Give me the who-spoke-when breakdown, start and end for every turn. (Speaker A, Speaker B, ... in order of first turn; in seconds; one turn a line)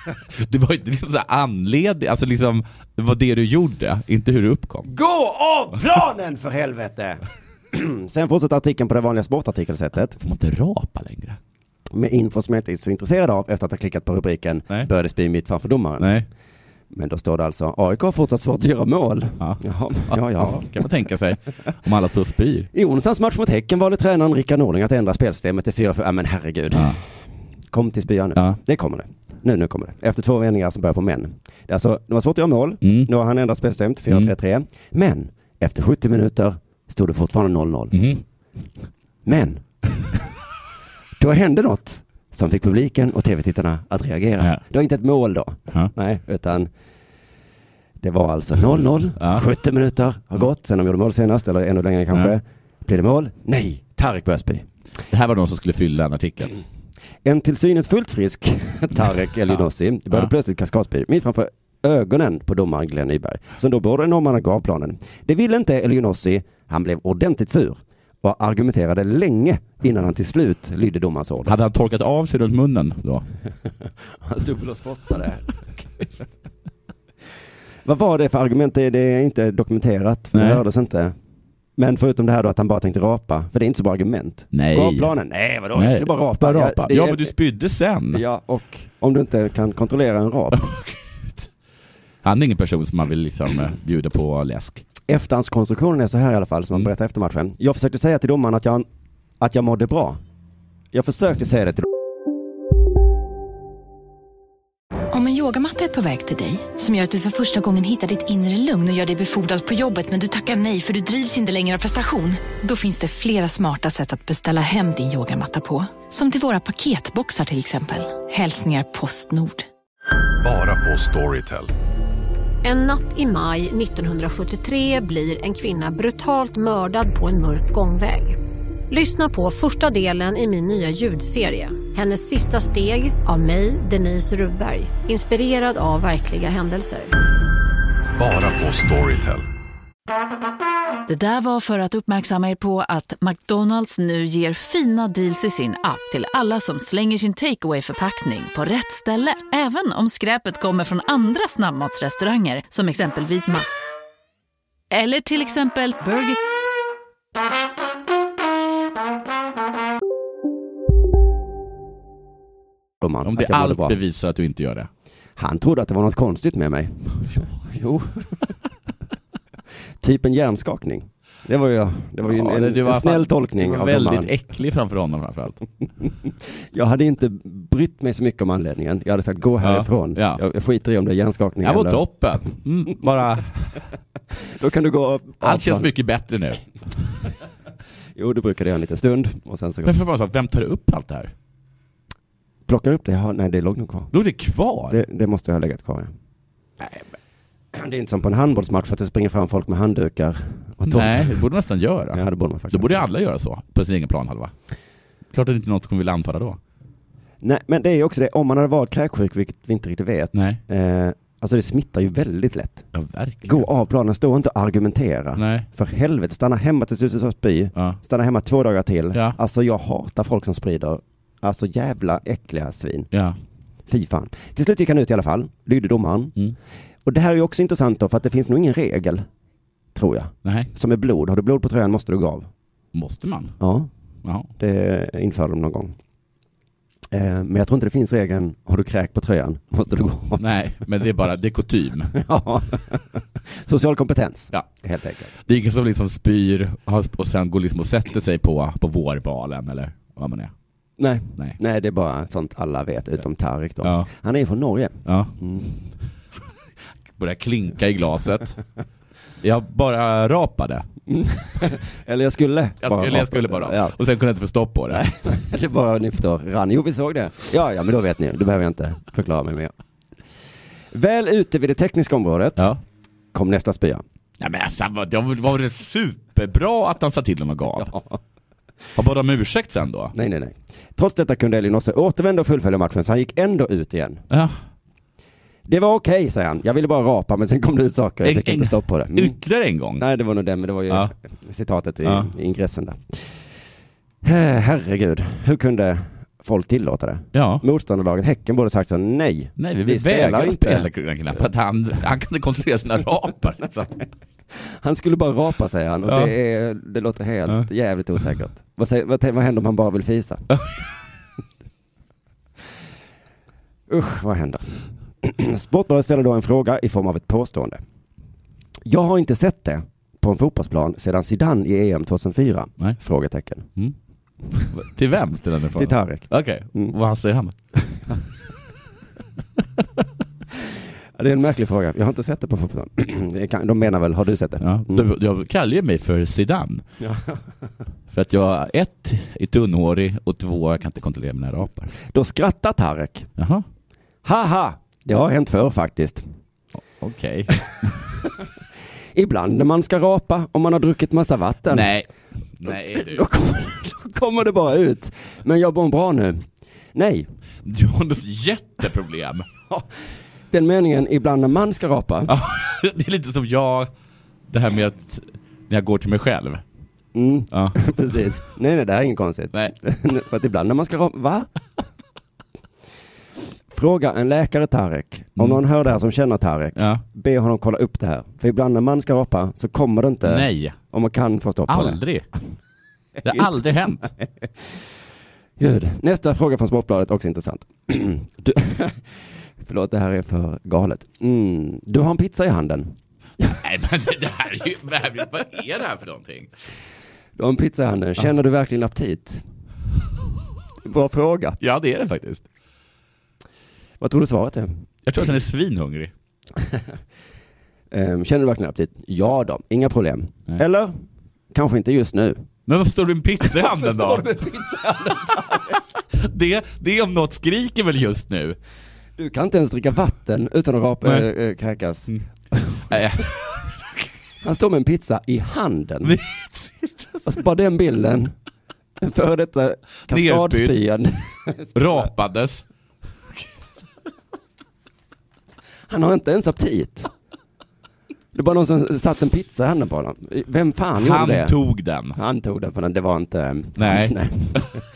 Speaker A: 0.3-4.9
Speaker B: 4.9-10.2
Speaker A: 10.2-11.4
Speaker B: 11.9-16.1
Speaker A: 16.0-16.2
Speaker B: 16.9-20.7
Speaker A: 19.4-22.7
Speaker B: 22.7-27.0
Speaker A: 26.7-27.0
Speaker B: 27.7-37.9
Speaker A: 32.8-33.1
Speaker A: 37.9-38.2
Speaker B: 39.2-39.6
Speaker B: 41.2-46.7
Speaker B: 48.0-54.7
Speaker A: 49.2-49.4
Speaker A: 55.1-56.5
Speaker B: 57.2-71.5
Speaker A: 71.4-73.2
Speaker B: 74.2-76.2
Speaker B: 77.8-81.2
Speaker A: 80.3-80.6
Speaker B: 81.8-87.3
Speaker A: 84.5-85.1
Speaker A: 85.7-88.2
Speaker B: 88.1-90.7
Speaker A: 90.6-91.0
Speaker A: 92.2-94.8
Speaker B: 95.1-98.9
Speaker B: 99.4-100.2
Speaker B: 100.9-101.9
Speaker C: 105.1-119.6
Speaker D: 120.4-121.7
Speaker E: 122.6-128.4
Speaker E: 128.9-137.1
Speaker D: 138.2-139.4
Speaker F: 141.1-153.7
Speaker F: 154.9-156.4
Speaker B: 163.0-164.0
Speaker A: 163.2-164.9
Speaker B: 165.4-168.4
Speaker B: 170.0-174.3
Speaker A: 172.3-175.6
Speaker B: 176.2-182.1
Speaker A: 179.6-180.4
Speaker A: 181.6-183.8
Speaker B: 184.4-185.9
Speaker A: 185.4-186.7
Speaker B: 188.2-190.0
Speaker A: 189.8-191.3
Speaker B: 192.7-194.1
Speaker A: 194.1-195.0
Speaker B: 194.9-196.1
Speaker B: 197.7-201.4
Speaker A: 200.8-204.5
Speaker B: 202.1-203.1
Speaker A: 205.3-206.6
Speaker B: 207.4-212.8
Speaker A: 210.3-210.6
Speaker A: 212.9-213.7
Speaker B: 213.4-223.1
Speaker A: 215.4-215.7
Speaker A: 223.1-223.4
Speaker B: 223.9-226.3
Speaker B: 227.0-229.2
Speaker B: 229.9-232.5
Speaker A: 230.4-230.7
Speaker A: 232.9-233.6
Speaker B: 233.6-233.9
Speaker A: 234.2-234.5
Speaker B: 234.6-235.9
Speaker B: 237.1-240.4
Speaker A: 240.4-242.1
Speaker B: 242.1-245.3
Speaker A: 245.4-250.5
Speaker B: 251.0-255.7
Speaker A: 253.8-254.1
Speaker A: 255.0-255.3
Speaker A: 257.2-258.6
Speaker A: 259.4-260.9
Speaker B: 261.1-263.9
Speaker A: 262.8-265.1
Speaker B: 264.9-269.7
Speaker B: 270.9-272.7
Speaker B: 273.3-274.0
Speaker A: 274.4-277.9
Speaker B: 277.8-278.2
Speaker A: 278.9-280.1
Speaker B: 280.1-284.2
Speaker A: 284.3-284.6
Speaker B: 285.6-289.4
Speaker A: 288.2-290.0
Speaker B: 290.0-293.3
Speaker A: 292.0-292.3
Speaker B: 294.2-300.9
Speaker A: 297.3-297.6
Speaker A: 299.6-304.0
Speaker B: 304.5-310.4
Speaker A: 306.1-306.3
Speaker B: 313.9-314.7
Speaker B: 315.2-317.8
Speaker B: 318.9-323.7
Speaker A: 324.6-327.6
Speaker B: 325.8-326.9
Speaker B: 331.1-335.1
Speaker A: 334.6-336.8
Speaker B: 337.0-337.4
Speaker A: 338.1-341.9
Speaker B: 342.1-343.3
Speaker A: 343.4-343.6
Speaker B: 344.2-346.2
Speaker A: 347.0-347.5
Speaker B: 349.1-351.9
Speaker A: 351.7-352.1
Speaker A: 352.6-353.2
Speaker B: 352.7-357.3
Speaker A: 357.6-359.4
Speaker B: 360.5-362.3
Speaker A: 362.3-363.9
Speaker A: 364.5-366.6
Speaker B: 367.1-371.5
Speaker A: 367.5-367.8
Speaker B: 373.7-382.0
Speaker A: 375.4-375.6
Speaker A: 376.8-377.0
Speaker A: 380.2-380.8
Speaker A: 381.7-382.2
Speaker A: 383.2-384.1
Speaker B: 385.6-392.9
Speaker A: 393.4-396.5
Speaker B: 397.4-399.4
Speaker B: 400.8-401.6
Speaker A: 401.6-402.4
Speaker B: 404.0-404.7
Speaker A: 405.1-406.1
Speaker B: 407.9-411.0
Speaker B: 411.5-412.4
Speaker A: 412.7-414.3
Speaker B: 413.4-415.8
Speaker A: 416.1-418.6
Speaker B: 419.2-423.0
Speaker A: 422.9-423.9
Speaker B: 424.4-426.2
Speaker A: 426.0-427.1
Speaker B: 427.2-428.3
Speaker B: 429.0-432.1
Speaker A: 430.1-430.8
Speaker A: 431.7-432.6
Speaker B: 435.9-437.1
Speaker B: 438.3-441.6
Speaker A: 441.0-442.2
Speaker B: 442.1-444.9
Speaker A: 443.8-444.7